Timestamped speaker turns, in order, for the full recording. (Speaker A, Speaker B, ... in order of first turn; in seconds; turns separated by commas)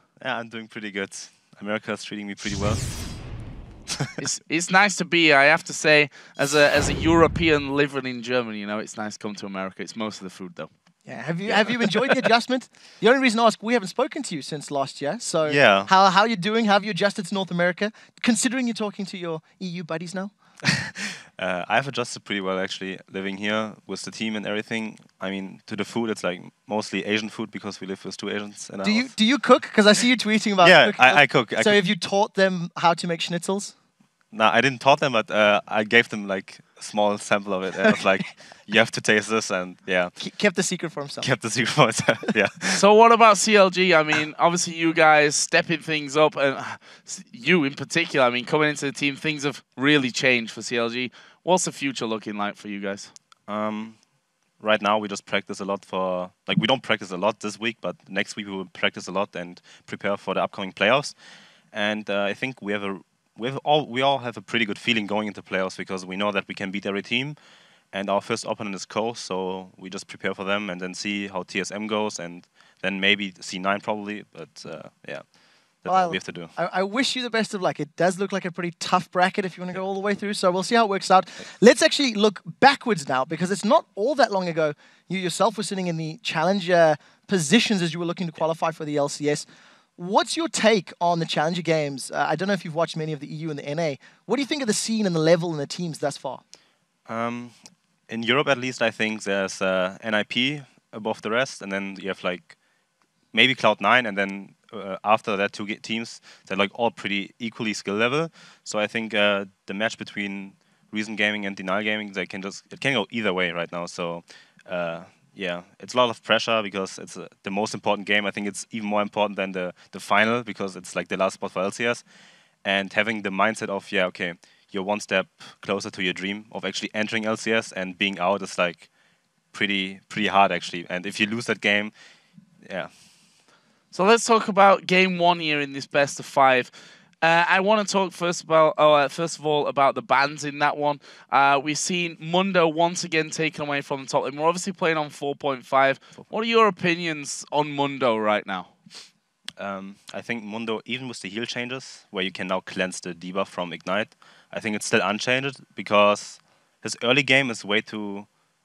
Speaker A: 0.2-2.9, Speaker B: 4.2-10.7, Speaker C: 11.1-20.3, Speaker A: 11.5-11.7, Speaker A: 15.4-15.9, Speaker A: 20.7-29.1, Speaker C: 28.8-33.7, Speaker A: 30.6-31.8, Speaker A: 34.3-40.1, Speaker C: 40.2-41.3, Speaker A: 41.2-42.8, Speaker B: 42.7-53.1, Speaker A: 53.5-54.0, Speaker A: 54.6-61.1, Speaker A: 61.7-67.4, Speaker A: 67.9-76.5, Speaker C: 75.9-89.5, Speaker C: 90.0-96.4, Speaker A: 97.1-97.5, Speaker A: 98.1-102.5, Speaker A: 103.3-122.0, Speaker A: 122.6-128.9, Speaker A: 129.5-131.9, Speaker A: 132.6-132.9, Speaker B: 133.9-148.7, Speaker A: 149.6-158.3